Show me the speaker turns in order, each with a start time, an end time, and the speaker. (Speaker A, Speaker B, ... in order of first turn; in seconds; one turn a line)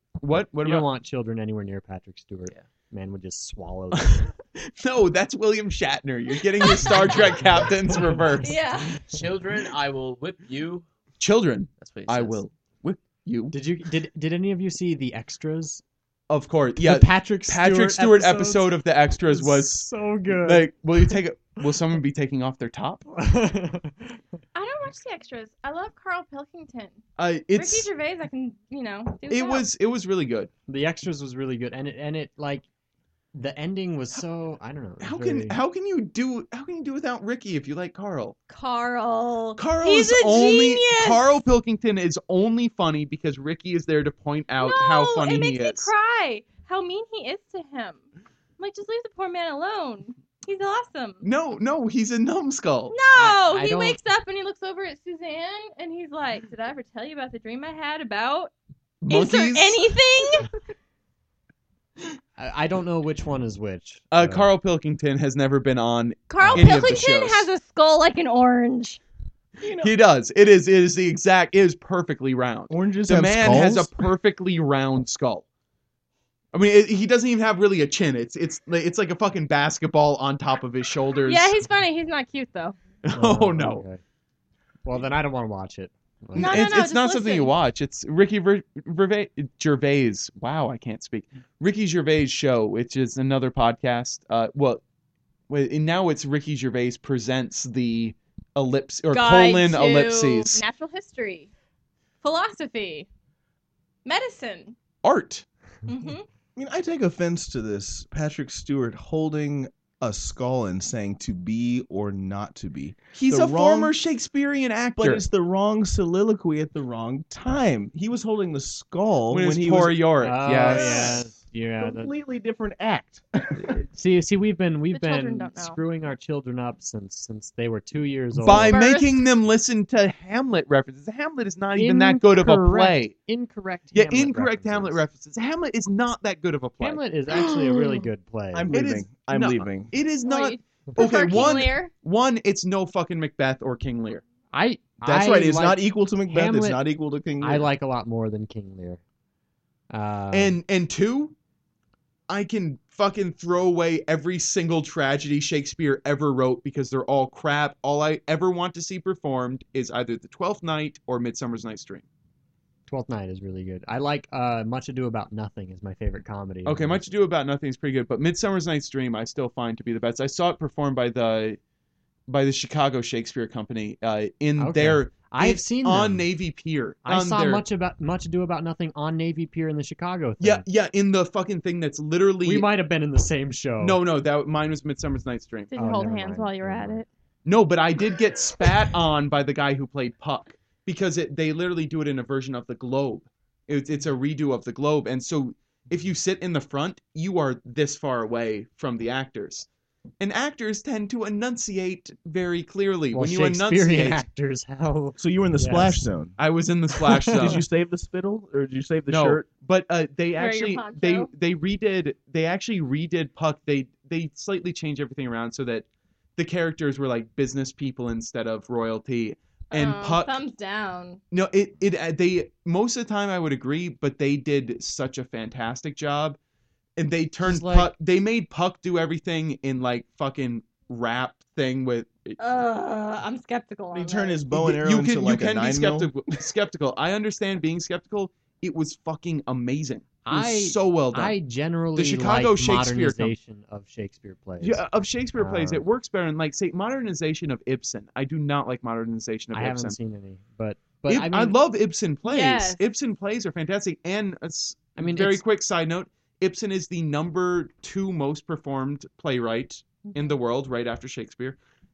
Speaker A: 0.2-0.9
Speaker B: 0.6-4.3
Speaker A: 4.0-8.6
Speaker C: 6.6-7.0
Speaker C: 8.4-9.0
Speaker D: 9.0-10.9
Speaker A: 11.2-13.5
Speaker D: 11.8-12.4
Speaker B: 13.5-15.8
Speaker A: 16.3-23.0
Speaker B: 16.8-21.2
Speaker B: 23.1-24.2
Speaker C: 24.5-27.0
Speaker A: 27.2-27.9
Speaker C: 27.5-29.7
Speaker A: 29.3-30.5
Speaker B: 30.7-32.6
Speaker B: 33.3-35.6
Speaker A: 35.0-38.4
Speaker C: 38.5-41.4
Speaker A: 39.6-45.9
Speaker C: 44.6-48.0
Speaker C: 48.6-51.2
Speaker A: 51.2-53.0
Speaker C: 52.9-58.5
Speaker B: 53.1-54.0
Speaker A: 59.0-59.9
Speaker C: 59.1-60.5
Speaker B: 62.4-64.5
Speaker A: 64.1-67.5
Speaker C: 66.3-69.0
Speaker B: 66.4-66.8
Speaker E: 69.6-69.9
Speaker A: 69.8-75.4
Speaker E: 72.7-74.0
Speaker A: 76.5-81.6
Speaker C: 81.2-82.8
Speaker A: 83.0-83.8
Speaker B: 83.1-84.0
Speaker B: 84.8-86.7
Speaker C: 86.3-87.5
Speaker A: 86.3-94.8
Speaker A: 95.5-100.6
Speaker C: 99.1-101.5
Speaker C: 102.2-103.1
Speaker C: 104.0-104.8
Speaker A: 105.0-105.4
Speaker C: 105.9-106.2
Speaker E: 106.5-113.9
Speaker A: 113.1-115.2
Speaker E: 115.0-120.0
Speaker A: 119.3-121.2
Speaker B: 120.2-122.1
Speaker E: 120.7-121.2
Speaker C: 120.9-121.1
Speaker E: 121.8-123.7
Speaker B: 123.5-128.8
Speaker C: 124.9-125.8
Speaker A: 128.4-133.1
Speaker C: 128.5-129.2
Speaker B: 131.7-135.0
Speaker A: 133.9-137.4
Speaker B: 136.8-138.7
Speaker E: 138.5-139.9
Speaker A: 138.7-144.2
Speaker C: 140.2-141.9
Speaker B: 144.5-146.8
Speaker E: 145.0-147.7
Speaker B: 147.4-149.0
Speaker B: 149.9-150.6
Speaker A: 150.3-151.3
Speaker A: 152.3-162.0
Speaker B: 162.9-167.1
Speaker A: 166.7-171.6
Speaker A: 172.3-177.6
Speaker B: 174.6-176.3
Speaker B: 177.0-180.6
Speaker A: 180.4-182.7
Speaker B: 182.4-184.0
Speaker A: 183.8-185.7
Speaker C: 185.7-187.1
Speaker B: 185.7-187.0
Speaker A: 187.4-199.7
Speaker A: 200.2-204.2
Speaker B: 203.1-206.0
Speaker E: 205.2-206.3
Speaker A: 206.4-207.6
Speaker B: 207.0-207.6
Speaker E: 207.2-209.5
Speaker A: 209.1-220.4
Speaker C: 210.3-211.3
Speaker C: 219.7-221.2
Speaker A: 221.3-226.4
Speaker A: 227.0-232.4
Speaker B: 227.4-227.9
Speaker C: 232.4-234.5
Speaker E: 233.9-236.2
Speaker A: 234.5-241.3
Speaker B: 240.2-244.8
Speaker A: 241.9-243.3
Speaker A: 244.6-249.9
Speaker B: 245.3-245.8
Speaker B: 249.5-251.5
Speaker A: 251.1-261.6
Speaker C: 252.2-252.8
Speaker B: 255.0-255.4
Speaker C: 260.0-260.4